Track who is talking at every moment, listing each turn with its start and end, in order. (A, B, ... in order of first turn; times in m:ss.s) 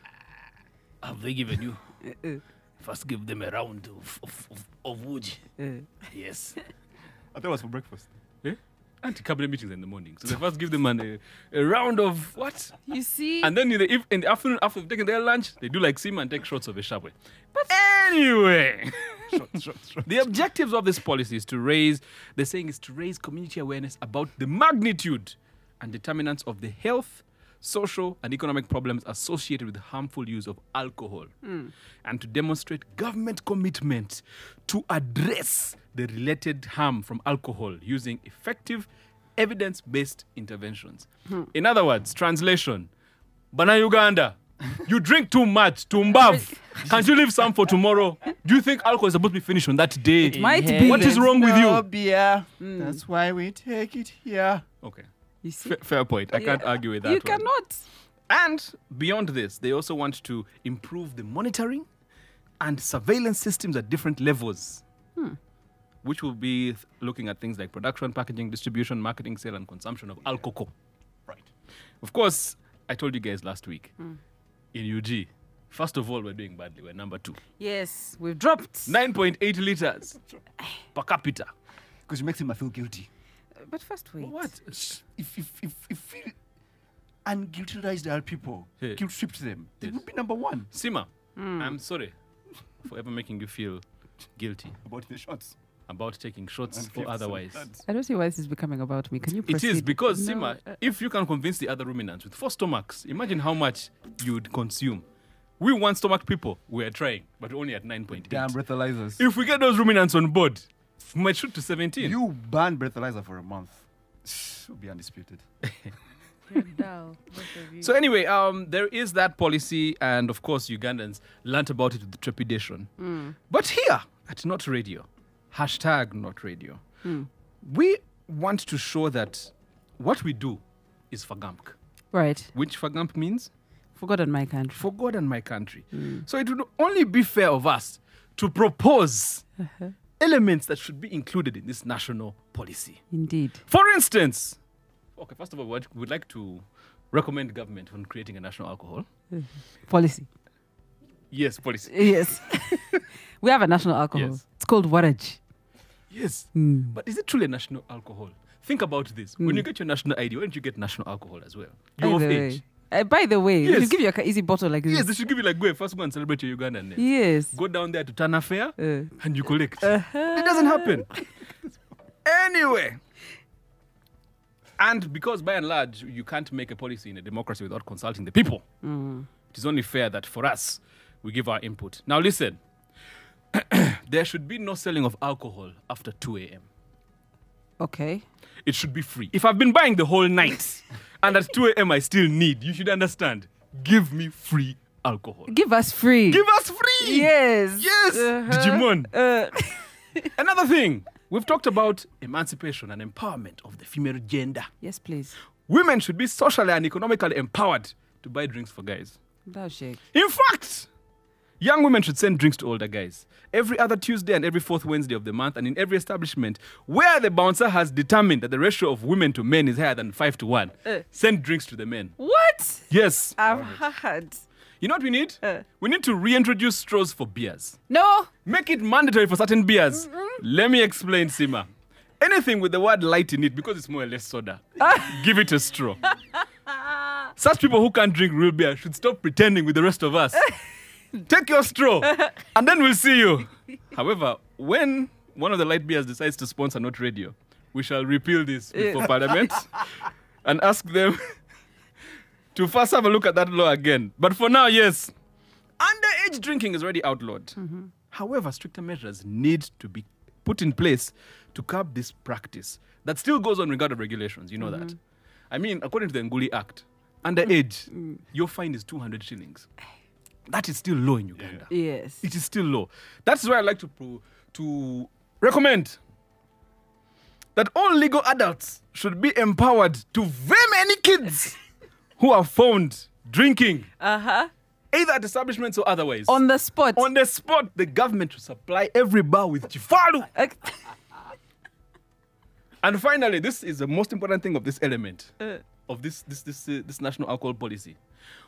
0:01.0-0:01.8 A
0:02.0-0:02.4 B
0:02.8-0:05.4 A
0:05.6-0:06.0 B
0:06.1-0:06.6 A
0:07.3-0:08.1 C
0:08.4-0:12.8 A
0:12.9-0:13.5 B
0:13.4-0:17.1 A
0:17.7-0:19.4 A
0:19.3-0:20.1 C
0:20.0-0:31.3 A
0:31.4-0:31.7 B
0:32.0-0:42.9 A
0:43.5-0:51.8 A
0:46.8-0:47.1 C
0:50.2-0:54.6 C
0:50.3-0:51.3 B
0:52.6-0:53.0 B
0:54.8-0:55.1 A
0:55.4-0:55.8 B
0:55.6-0:57.5 A
0:56.3-0:57.8 B
0:58.3-1:01.9 A
1:02.6-1:04.8 A
1:06.0-1:10.7 A
1:12.0-1:13.9 A
1:14.7-1:17.4 A
1:17.6-1:19.0 B
1:18.9-1:20.2 A
1:20.9-1:21.5 A
1:22.1-1:23.1 C
1:23.6-1:24.5 B
1:24.2-1:25.0 A
1:25.0-1:26.4 C
1:27.2-1:30.7 C
1:30.7-1:32.1 A
1:31.4-1:31.8 B
1:32.8-1:33.8 A
1:34.4-1:34.8 A
1:34.8-1:35.6 C
1:35.9-1:37.7 A
1:36.7-1:37.8 C
1:37.9-1:40.7 B
1:39.4-1:45.0 A
1:45.6-1:48.6 A
1:48.1-1:49.2 C
1:49.2-1:52.2 A
1:52.0-1:55.4 C
1:55.6-1:55.9 A
1:56.5-1:57.8 B
1:57.6-2:02.9 A
2:03.0-2:03.4 B
2:03.5-2:06.8 A
2:07.6-2:11.8 A
2:12.1-2:12.5 B
2:12.5-2:13.5 A
2:14.0-2:14.8 B
2:14.8-2:19.4 A
2:15.9-2:16.2 B
2:19.7-2:19.9 B
2:20.2-2:23.0 A
2:23.1-2:23.6 B
2:23.6-2:24.6 A
2:25.2-2:29.1 A
2:29.3-2:30.3 B
2:31.3-2:33.0 A
2:31.9-2:35.4 B
2:34.1-2:34.4 A
2:36.1-2:42.6 A
2:36.5-2:36.9 B
2:42.0-2:45.1 B
2:43.6-2:44.0 A
2:44.9-2:51.1 A
2:47.0-2:47.5 B
2:48.8-2:49.2 B
2:49.8-2:51.2 B
2:52.2-2:53.0 A
2:54.8-2:58.6 A
2:58.8-2:59.3 B
2:59.5-3:02.6 A
3:03.5-3:06.6 A
3:07.8-3:08.2 B
3:08.6-3:15.5 A
3:15.5-3:16.4 B
3:16.3-3:19.1 A
3:17.0-3:20.3 B
3:20.3-3:24.7 A
3:24.8-3:25.4 B
3:25.7-3:29.2 A
3:29.5-3:30.0 B
3:30.1-3:30.9 A
3:31.6-3:42.1 A
3:42.2-3:44.4 B
3:42.9-3:43.4 A
3:43.4-3:43.8 C
3:44.8-3:47.8 A
3:47.9-3:48.3 B
3:48.4-3:51.7 A
3:52.2-3:56.1 A
3:54.8-3:55.1 B
3:57.4-4:00.5 A
4:01.2-4:11.3 A
4:08.7-4:09.5 B
4:12.5-4:15.1 A
4:15.8-4:17.6 A
4:17.6-4:17.9 B
4:18.1-4:25.0 A
4:24.6-4:24.9 B
4:25.5-4:29.7 A
4:30.5-4:31.7 A
4:31.4-4:31.6 C
4:31.7-4:32.2 B
4:32.2-4:36.0 A
4:37.6-4:41.6 A
4:42.2-4:43.9 A
4:44.0-4:44.5 B
4:44.9-4:46.4 A
4:46.3-4:47.0 B
4:46.9-4:50.3 A
4:50.4-4:50.8 B
4:52.8-4:55.3 A
4:55.9-4:58.0 A